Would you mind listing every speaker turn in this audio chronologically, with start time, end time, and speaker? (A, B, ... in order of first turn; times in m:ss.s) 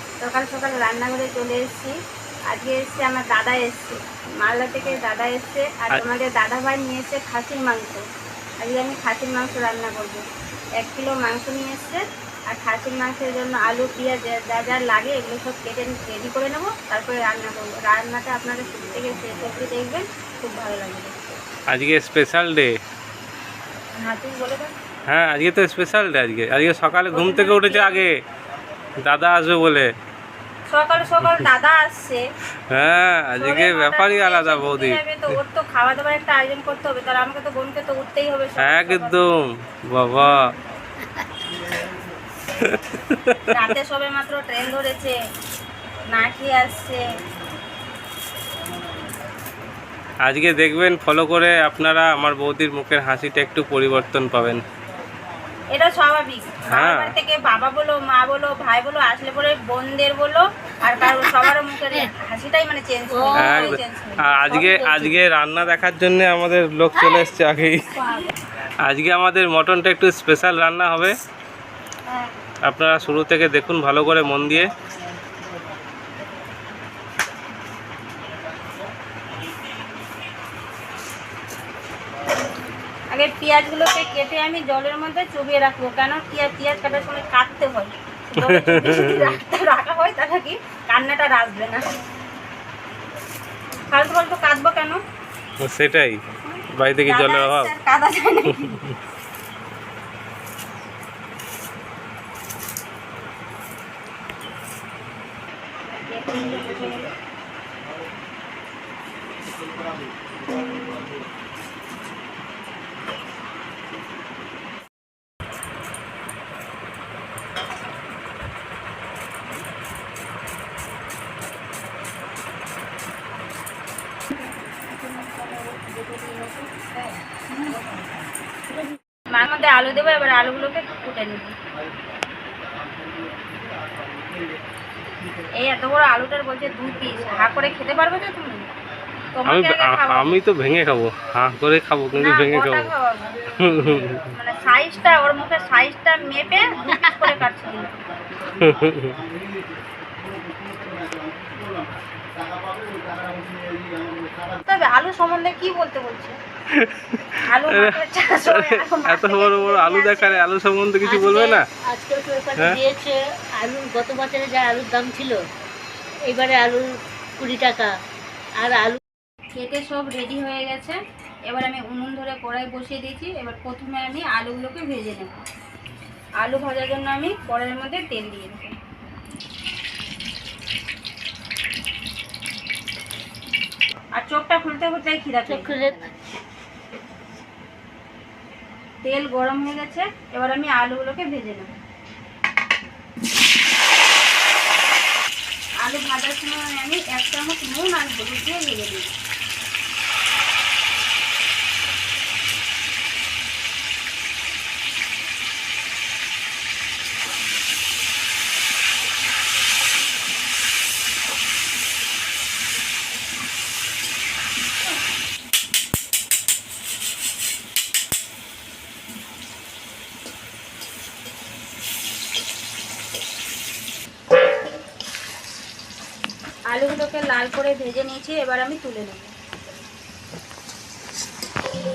0:00.2-0:02.0 A
0:02.5-0:08.0 A
0:08.6-0:10.2 A
0:10.8-0:21.2 A
0:21.7-0:22.7 B
0:24.0-0:24.7 A
0:25.1-0:28.1 B
0:27.1-0:28.0 A
0:29.0-0:29.9 B
0:30.7-0:32.2 A
0:32.7-0:35.0 B
0:33.4-0:39.2 A
0:38.6-0:40.5 B
0:42.6-0:43.4 B
0:43.5-0:45.2 A
0:46.1-0:47.0 A
0:50.3-0:54.6 B
0:55.7-1:04.3 A
0:56.7-0:57.1 B
1:03.2-1:03.8 C
1:03.4-1:03.8 B
1:04.3-1:07.9 B
1:04.5-1:05.2 C
1:08.8-1:11.1 B
1:12.7-1:14.7 B
1:23.1-1:31.8 A
1:28.4-1:29.2 B
1:33.9-1:35.0 A
1:35.6-1:36.2 B
1:36.5-1:38.9 A
1:36.8-1:37.7 B
1:45.9-1:47.1 A
2:05.1-2:06.8 A
2:09.3-2:11.6 A
2:15.6-2:18.7 A
2:19.4-2:20.4 A
2:19.5-2:22.9 B
2:22.2-2:23.3 A
2:23.6-2:24.2 B
2:24.3-2:28.0 A
2:28.6-2:29.2 B
2:34.6-2:36.4 A
2:36.8-2:38.0 B
2:37.5-2:40.4 A
2:38.5-2:41.6 B
2:41.0-2:45.4 C
2:46.3-2:46.9 C
2:47.4-2:47.9 C
2:48.6-2:49.0 C
2:49.6-2:55.4 A
2:56.4-2:58.8 A
3:04.2-3:05.8 A
3:05.5-3:06.2 C
3:09.0-3:11.7 A
3:15.8-3:19.1 A
3:46.7-3:49.3 A